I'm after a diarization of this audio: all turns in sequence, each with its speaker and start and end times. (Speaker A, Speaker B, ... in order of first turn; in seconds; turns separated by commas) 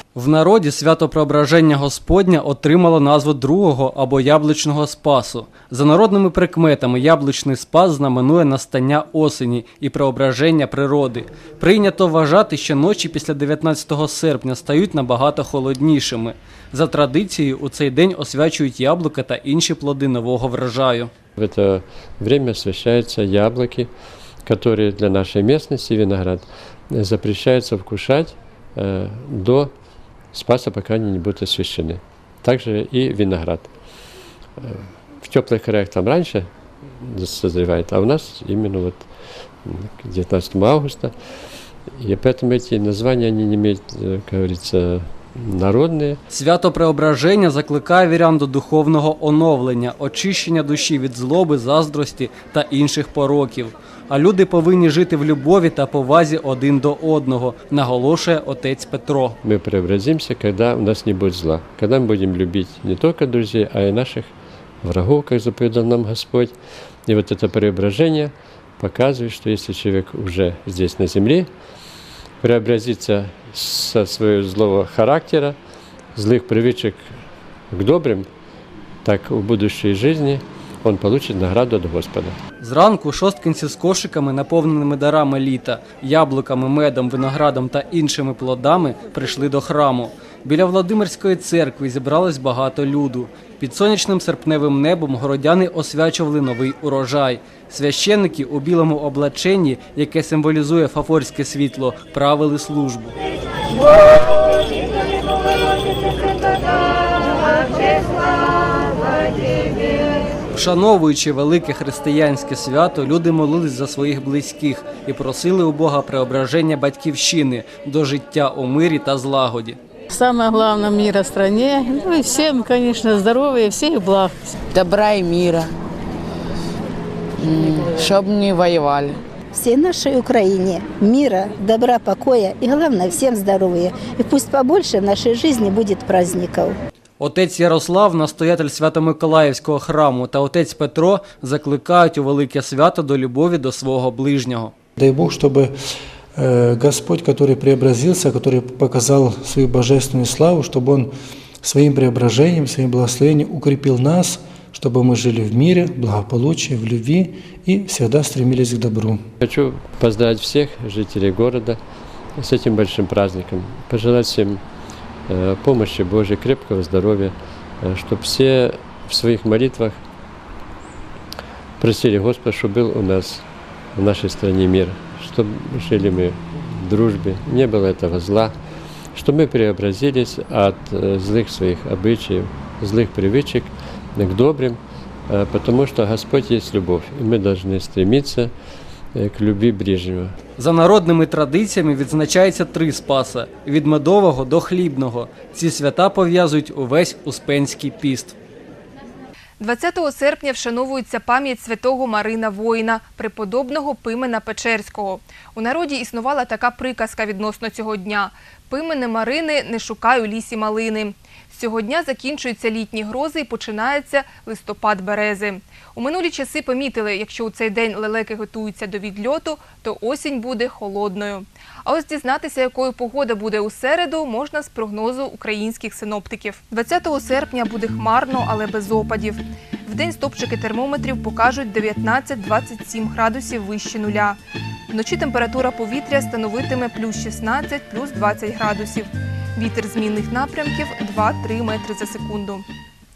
Speaker A: 0.1-21.1, Speaker B: 21.4-23.9, Speaker B: 24.4-29.7, Speaker B: 30.3-33.7, Speaker B: 34.6-39.1, Speaker B: 39.6-41.1, Speaker B: 41.9-46.2, Speaker A: 46.3-59.4, Speaker B: 59.4-64.3, Speaker B: 64.8-71.5, Speaker B: 72.4-75.6, Speaker B: 76.2-77.1, Speaker B: 77.7-78.3, Speaker B: 79.0-82.4, Speaker A: 82.6-103.2, Speaker A: 110.5-119.8, Speaker C: 120.1-124.3, Speaker D: 124.7-125.7, Speaker D: 127.4-129.2, Speaker E: 129.5-136.8, Speaker A: 137.2-144.7, Speaker F: 145.0-145.7, Speaker F: 146.4-151.1, Speaker F: 151.6-159.2, Speaker B: 159.4-161.8, Speaker B: 162.4-164.6, Speaker B: 165.3-170.0, Speaker B: 171.8-178.6, Speaker B: 179.1-188.5, Speaker B: 189.1-190.3, Speaker A: 190.6-198.4, Speaker G: 199.6-234.4, Speaker G: 234.9-242.7